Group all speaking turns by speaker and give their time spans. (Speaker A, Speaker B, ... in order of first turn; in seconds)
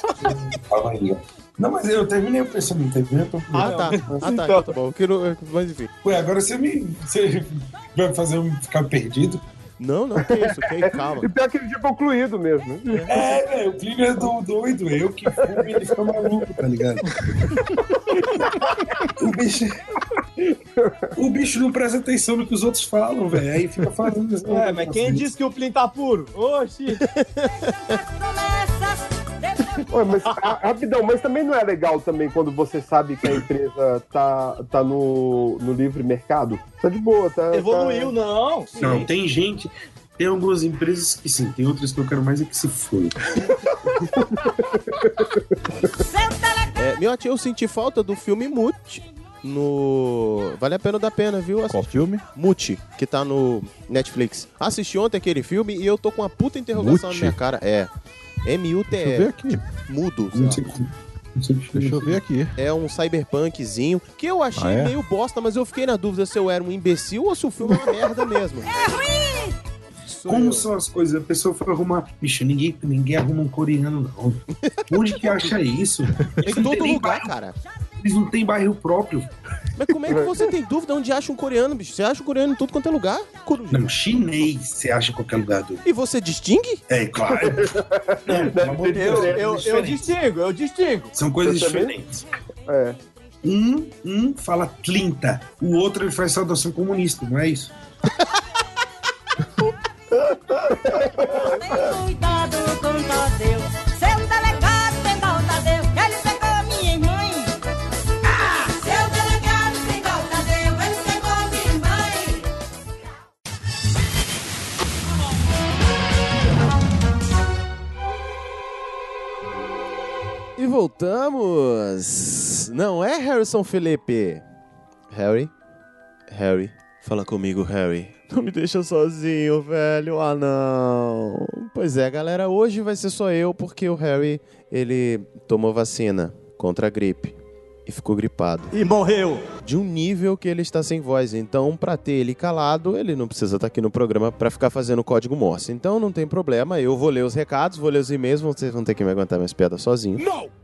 Speaker A: 0.2-4.2, 6.0-9.4, 13.1-17.6, 19.1-19.8, 21.2-25.3, 38.8-43.5, 60.3-62.2, 70.2-77.3, 78.0-79.3, 83.7-85.8, 86.9-87.7, 88.2-90.0, 91.1-92.2, 93.4-97.7
Speaker B: 3.5-4.7, 24.5-27.0, 37.5-39.1, 88.9-91.1, 138.7-139.5
Speaker C: 3.6-5.9, 9.8-11.3, 27.0-28.0, 46.7-57.9, 58.4-59.3, 59.9-60.7, 62.5-68.9, 76.4-77.6, 79.8-83.9, 85.8-86.8, 120.6-124.4, 125.1-125.5, 126.3-137.3, 137.9-138.7, 139.6-150.3
Speaker D: 10.2-13.3, 15.3-16.2, 18.1-18.6, 20.8-21.1, 29.9-38.1, 43.9-46.0, 70.1-70.7, 87.2-89.6, 91.4-91.9, 92.7-93.0, 100.7-101.5
Speaker E: 51.7-52.2, 56.7-57.4, 59.0-59.6, 61.7-62.5, 64.5-65.0
Speaker F: 101.8-107.5, 108.9-112.3